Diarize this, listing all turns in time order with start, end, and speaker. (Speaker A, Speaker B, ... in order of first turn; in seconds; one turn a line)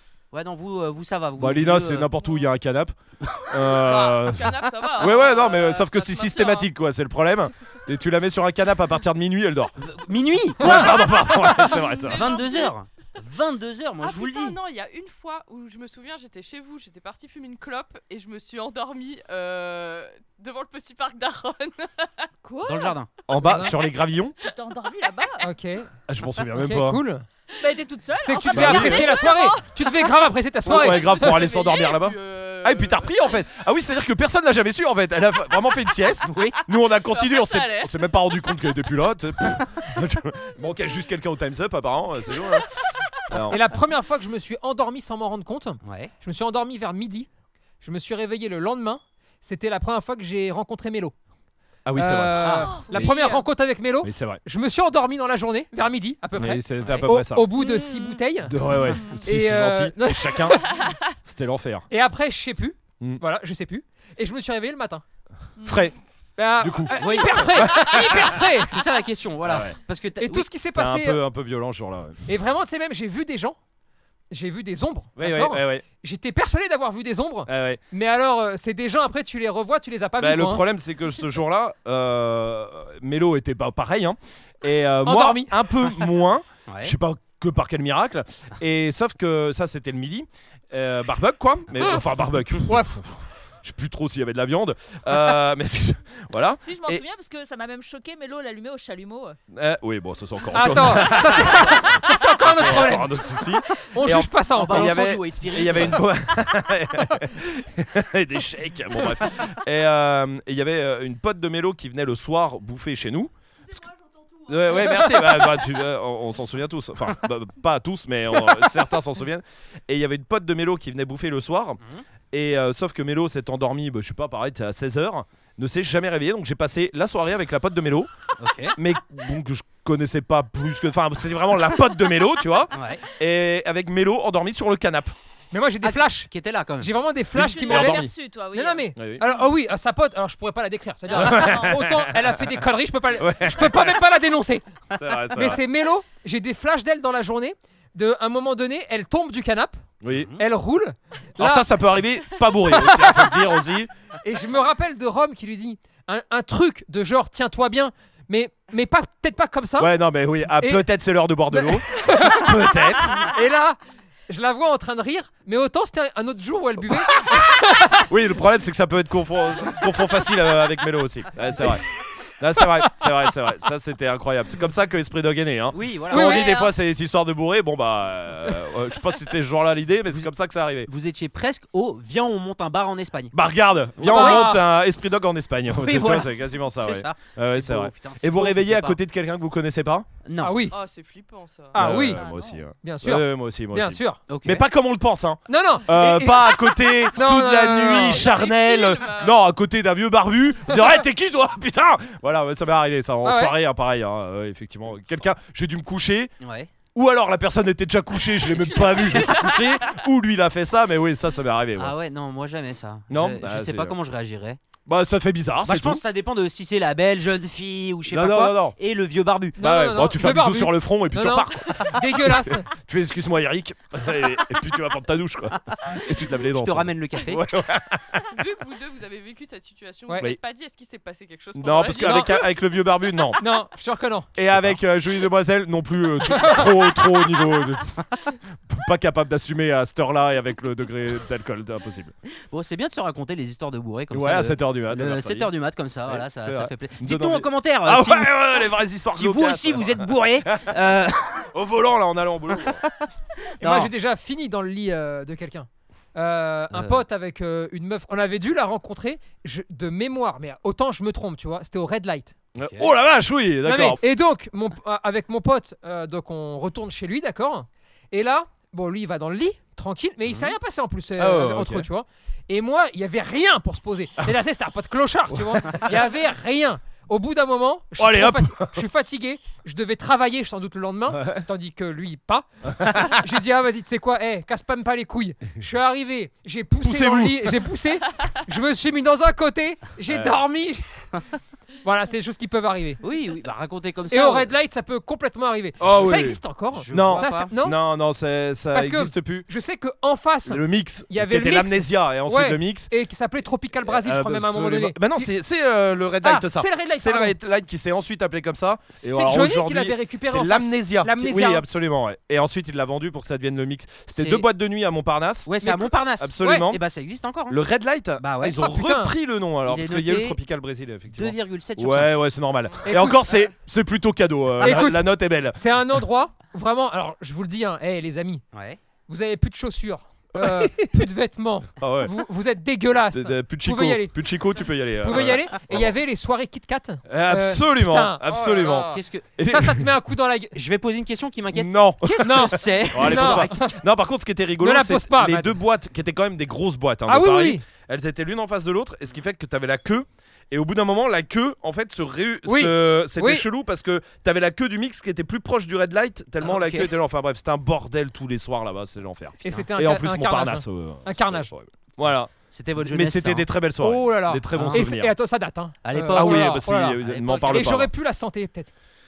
Speaker A: 0.3-2.1
Speaker B: 1.4-9.8
Speaker C: 3.6-6.7
Speaker A: 9.8-11.1
Speaker B: 10.6-12.3
Speaker C: 10.7-12.7
Speaker A: 12.0-14.6
Speaker C: 14.0-22.3
Speaker D: 22.4-23.0
Speaker A: 22.6-23.1
Speaker B: 23.3-24.3
Speaker E: 23.4-23.8
Speaker D: 24.4-25.5
Speaker E: 25.4-25.9
Speaker B: 26.1-27.0
Speaker E: 26.5-27.2
Speaker D: 27.6-30.1
Speaker E: 28.2-31.3
Speaker B: 28.5-29.2
Speaker C: 30.7-33.2
Speaker B: 30.7-43.6
Speaker A: 36.3-36.6
Speaker C: 36.7-38.7
Speaker E: 43.5-47.3
Speaker A: 45.8-46.1
Speaker E: 47.8-51.1
Speaker B: 51.9-53.2
Speaker E: 52.0-60.7
Speaker A: 52.4-53.1
Speaker D: 53.0-53.4
Speaker B: 54.0-54.4
Speaker B: 56.4-57.5
Speaker D: 57.5-58.2
Speaker B: 58.5-61.9
Speaker D: 58.9-59.2
Speaker E: 61.9-65.0
Speaker D: 65.6-65.9
Speaker B: 65.6-66.0
Speaker E: 66.4-68.7
Speaker B: 66.6-68.4
Speaker A: 67.0-70.5
Speaker B: 69.4-69.8
Speaker E: 70.2-71.2
Speaker B: 70.8-72.2
Speaker E: 72.3-73.6
Speaker E: 74.3-80.7
Speaker B: 75.2-75.8
Speaker B: 77.5-77.8
Speaker B: 80.2-97.0
Speaker E: 85.0-85.9
Speaker A: 86.7-87.0
Speaker E: 92.7-93.0
Speaker D: 96.6-99.4
Speaker B: 99.5-101.9
Speaker E: 100.5-105.0
Speaker B: 102.4-113.9
Speaker A: 104.5-106.1
Speaker B: 114.4-121.8
Speaker B: 122.3-128.1
Speaker A: 128.4-128.8
Speaker B: 128.8-135.1
Speaker A: 132.7-133.0
Speaker E: 135.5-144.7
Speaker A: 135.8-136.9
Speaker B: 137.3-138.2
Speaker D: 137.4-139.3
Speaker B: 139.0-139.2
Speaker B: 141.1-142.5
Speaker D: 141.3-141.7
Speaker B: 143.2-144.0
Speaker B: 145.0-145.6
Speaker E: 145.3-149.8
Speaker B: 150.0-150.3
Speaker A: 150.1-150.4
Speaker E: 150.4-151.7
Speaker B: 151.4-153.9
Speaker E: 152.6-153.3
Speaker E: 154.2-160.0
Speaker B: 159.8-163.3
Speaker E: 160.5-160.9
Speaker E: 161.5-168.1
Speaker B: 168.1-180.9
Speaker A: 175.7-176.6
Speaker E: 176.1-176.6
Speaker D: 176.2-176.7
Speaker A: 180.8-183.4
Speaker B: 183.3-190.1
Speaker A: 184.0-184.4
Speaker E: 184.0-184.6
Speaker A: 185.8-189.0
Speaker A: 190.2-190.6
Speaker E: 190.4-190.8
Speaker C: 190.7-192.0
Speaker E: 191.7-192.2
Speaker B: 191.8-206.3
Speaker D: 192.0-192.6
Speaker E: 192.8-194.2
Speaker A: 194.3-194.7
Speaker E: 195.5-198.3
Speaker C: 197.8-199.4
Speaker E: 203.2-203.5
Speaker A: 206.4-206.7
Speaker B: 206.9-211.9
Speaker C: 208.6-209.6
Speaker A: 211.8-214.6
Speaker B: 213.1-214.0
Speaker B: 214.9-216.0
Speaker A: 215.6-219.6
Speaker B: 218.1-218.8
Speaker E: 219.6-222.7
Speaker B: 219.6-228.3
Speaker A: 226.5-227.4
Speaker C: 228.3-232.5
Speaker B: 231.5-233.4
Speaker E: 232.0-232.3
Speaker E: 233.4-234.3
Speaker B: 234.3-242.1
Speaker E: 236.4-236.7
Speaker A: 242.5-248.5
Speaker B: 244.1-245.5
Speaker B: 246.1-250.7
Speaker A: 249.1-251.5
Speaker B: 251.5-252.8
Speaker E: 253.6-262.4
Speaker A: 253.6-253.9
Speaker A: 256.7-257.0
Speaker B: 262.6-264.0
Speaker A: 262.6-262.9
Speaker E: 263.6-291.2
Speaker B: 271.2-271.9
Speaker B: 275.3-275.8
Speaker B: 278.0-278.9
Speaker B: 281.1-281.5
Speaker B: 282.8-283.2
Speaker B: 286.8-287.6
Speaker B: 290.1-290.4
Speaker E: 291.8-293.0
Speaker A: 293.0-294.5
Speaker E: 294.1-297.8
Speaker B: 295.8-296.4
Speaker A: 296.7-297.5
Speaker B: 296.9-299.5
Speaker E: 298.7-305.3
Speaker B: 300.5-302.9
Speaker B: 303.9-315.5
Speaker E: 306.2-307.4
Speaker E: 309.0-311.6
Speaker A: 314.2-314.5
Speaker A: 315.5-317.6
Speaker E: 315.6-316.7
Speaker B: 316.2-316.8
Speaker B: 317.5-325.6
Speaker A: 318.2-318.6
Speaker E: 318.5-319.1
Speaker A: 319.6-320.4
Speaker A: 321.1-322.2
Speaker E: 322.9-323.3
Speaker E: 324.6-328.4
Speaker A: 328.5-328.8
Speaker E: 329.1-334.2
Speaker B: 330.4-330.9
Speaker B: 331.8-332.1
Speaker B: 333.1-335.9
Speaker E: 335.0-340.6
Speaker B: 337.1-339.9
Speaker A: 338.7-339.2
Speaker A: 340.6-343.6
Speaker B: 341.5-365.1
Speaker E: 342.2-343.8
Speaker E: 344.6-345.6
Speaker E: 347.1-347.6
Speaker E: 352.4-353.5
Speaker A: 356.4-356.9
Speaker E: 359.4-361.5
Speaker A: 362.5-363.5
Speaker E: 363.8-368.7
Speaker A: 364.5-364.9
Speaker A: 365.9-367.8
Speaker B: 366.0-367.9